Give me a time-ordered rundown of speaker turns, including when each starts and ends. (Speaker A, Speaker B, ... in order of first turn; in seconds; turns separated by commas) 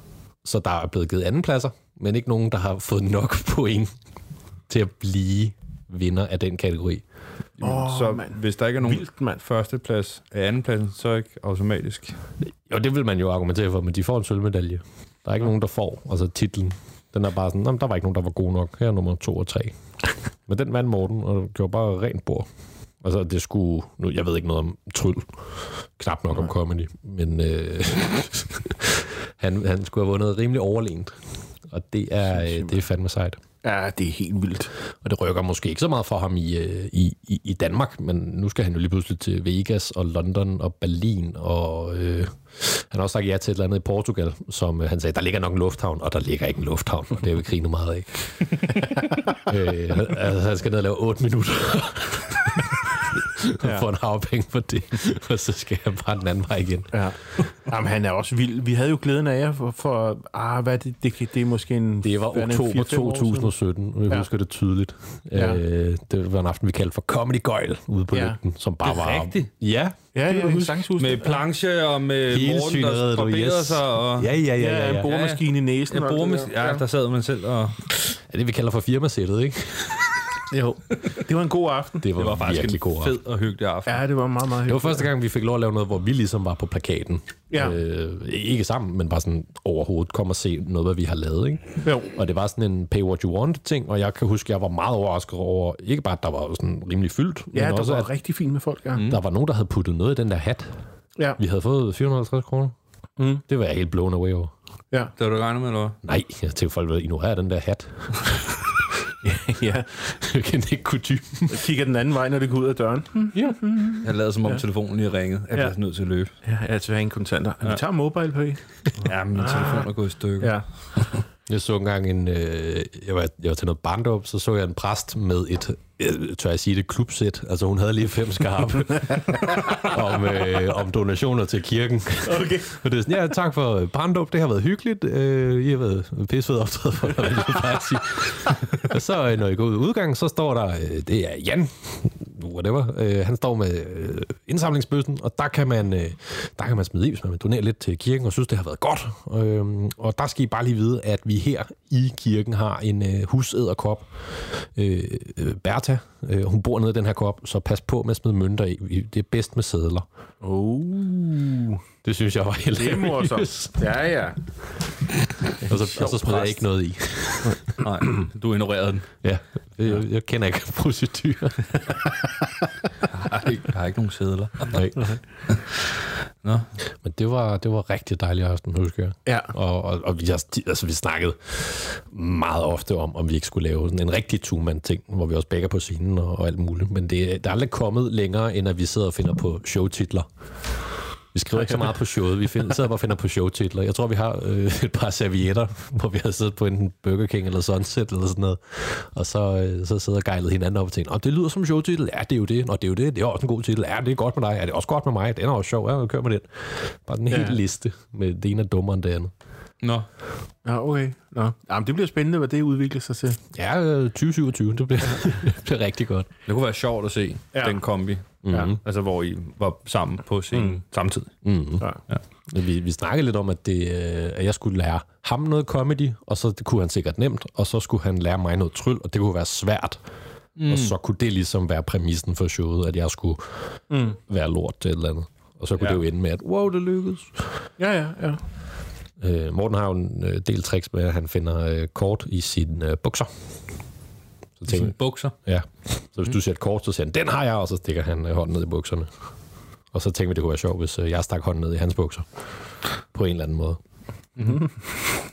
Speaker A: 0.4-3.9, Speaker A: 4.7-7.0, Speaker B: 7.6-12.2, Speaker C: 7.6-9.4, Speaker A: 12.7-19.7, Speaker A: 20.5-22.5, Speaker A: 23.0-25.3, Speaker A: 26.0-31.1, Speaker A: 31.7-33.4, Speaker C: 32.3-32.8, Speaker C: 33.6-34.7, Speaker A: 35.0-48.8, Speaker C: 48.8-49.2, Speaker A: 49.4-56.9, Speaker C: 53.6-53.9, Speaker C: 56.9-63.5, Speaker A: 62.0-70.8, Speaker C: 65.3-65.6, Speaker C: 68.1-68.4, Speaker B: 68.8-69.5, Speaker C: 70.1-71.4, Speaker B: 71.0-74.3, Speaker A: 72.3-75.1, Speaker C: 74.6-76.8, Speaker B: 75.0-77.9, Speaker A: 78.2-80.1, Speaker C: 80.5-82.1, Speaker A: 82.0-83.2, Speaker B: 82.2-84.0, Speaker C: 83.9-85.1, Speaker A: 84.7-98.1, Speaker C: 87.5-87.8, Speaker C: 91.8-92.1, Speaker C: 97.5-99.1, Speaker A: 99.0-100.7, Speaker A: 101.4-102.8, Speaker C: 103.2-103.4, Speaker A: 103.5-104.5, Speaker B: 105.2-106.0, Speaker A: 106.0-108.8, Speaker C: 109.2-110.1, Speaker A: 110.0-111.7, Speaker C: 111.5-114.6, Speaker B: 114.0-116.3, Speaker C: 116.4-119.9, Speaker B: 119.0-120.6, Speaker C: 120.4-120.7, Speaker A: 121.5-160.1, Speaker C: 132.2-132.7, Speaker C: 160.4-161.8, Speaker A: 162.0-163.8, Speaker C: 162.8-164.4, Speaker A: 165.6-167.8, Speaker C: 165.7-166.6, Speaker B: 167.8-169.1, Speaker A: 169.2-171.9, Speaker B: 173.1-174.8, Speaker A: 174.7-175.2, Speaker A: 177.0-190.3, Speaker C: 179.3-179.5, Speaker A: 191.3-209.3, Speaker C: 207.3-207.6, Speaker B: 209.8-210.1, Speaker C: 210.7-213.4, Speaker A: 213.5-216.3, Speaker B: 216.5-221.3, Speaker C: 217.5-217.8, Speaker A: 218.4-218.8, Speaker A: 221.4-221.9, Speaker A: 222.5-230.0, Speaker B: 230.6-230.9, Speaker A: 230.7-233.5, Speaker C: 233.9-234.2, Speaker A: 234.2-237.4, Speaker C: 237.8-238.4, Speaker A: 239.2-243.3, Speaker A: 244.6-249.1, Speaker B: 244.7-245.3, Speaker A: 249.9-252.3, Speaker A: 253.1-253.8, Speaker B: 254.4-254.7, Speaker C: 254.4-254.9